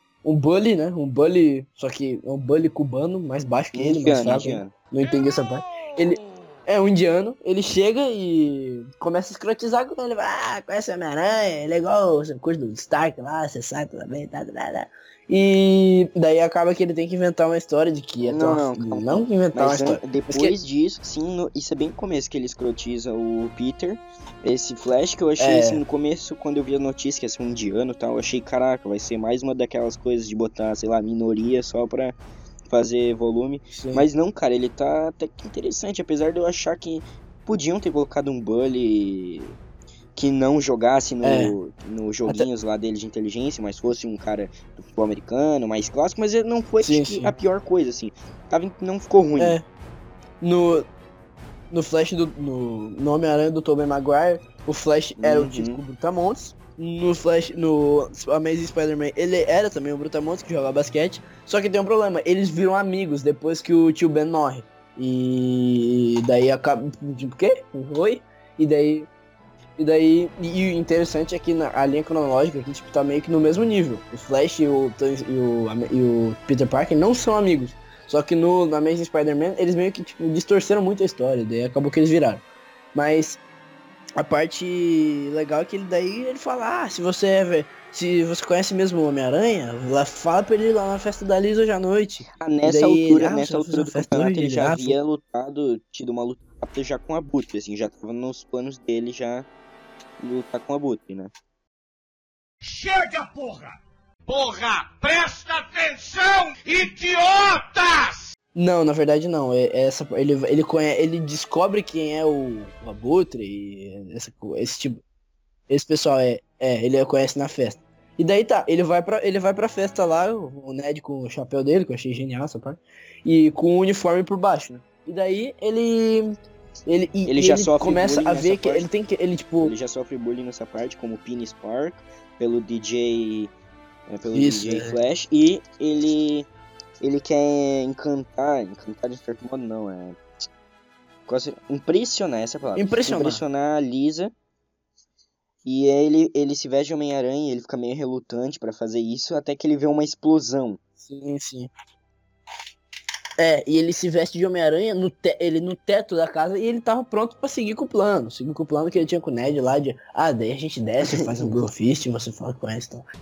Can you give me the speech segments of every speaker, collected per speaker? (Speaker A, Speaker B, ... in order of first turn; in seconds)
Speaker A: 0.2-20.6, 25.4-25.8, 33.7-34.1, 41.2-41.5, 46.8-47.3, 49.4-49.6, 50.4-50.9, 51.7-69.1, 69.8-83.4, 84.2-95.0, 108.5-115.0, 115.7-129.7, 134.3-135.0, 142.8-143.4, 151.0-151.7, 153.4-163.1
Speaker B: 3.7-4.7, 18.2-32.1, 32.7-39.5, 40.1-49.6, 55.2-55.8, 92.4-99.5, 100.2-101.3, 127.3-128.9, 129.6-133.5, 134.1-136.5, 137.0-140.2, 141.3-144.3, 145.6-150.8, 161.0-161.6
Speaker C: 102.6-108.3